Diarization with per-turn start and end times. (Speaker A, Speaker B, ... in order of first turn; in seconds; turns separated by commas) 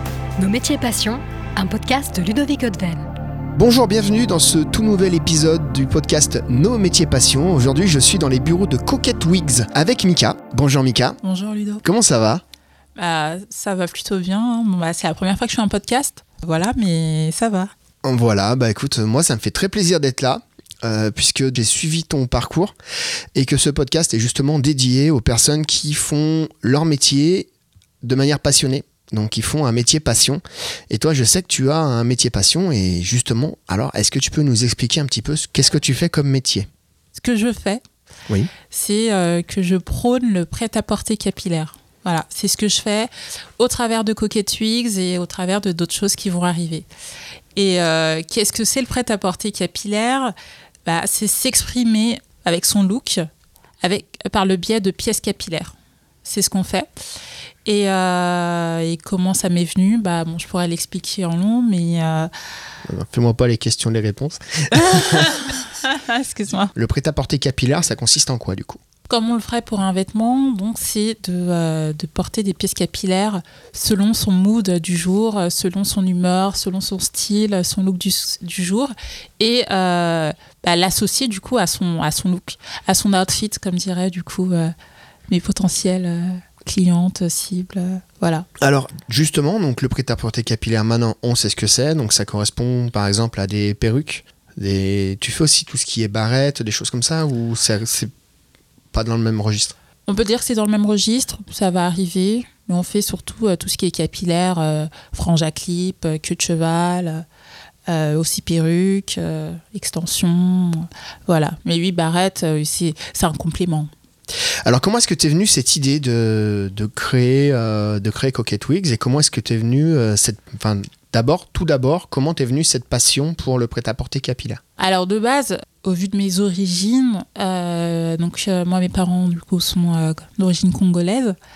Speaker A: 0.4-3.1, Speaker B: 3.6-11.2, Speaker C: 11.2-11.8, Speaker B: 11.8-12.4, Speaker C: 13.0-17.7, Speaker B: 18.0-22.8, Speaker B: 23.4-27.5, Speaker B: 28.0-36.7, Speaker C: 37.1-37.8, Speaker C: 38.7-46.9, Speaker C: 47.6-50.3, Speaker C: 50.9-53.3, Speaker C: 53.8-57.0, Speaker C: 57.7-62.3, Speaker B: 62.9-65.3, Speaker C: 64.7-66.7, Speaker B: 66.8-68.8, Speaker C: 69.1-84.7, Speaker C: 85.3-88.5, Speaker B: 88.6-98.1, Speaker B: 98.9-99.8, Speaker C: 100.1-107.2, Speaker C: 107.9-113.9, Speaker B: 114.6-124.6, Speaker C: 124.8-131.4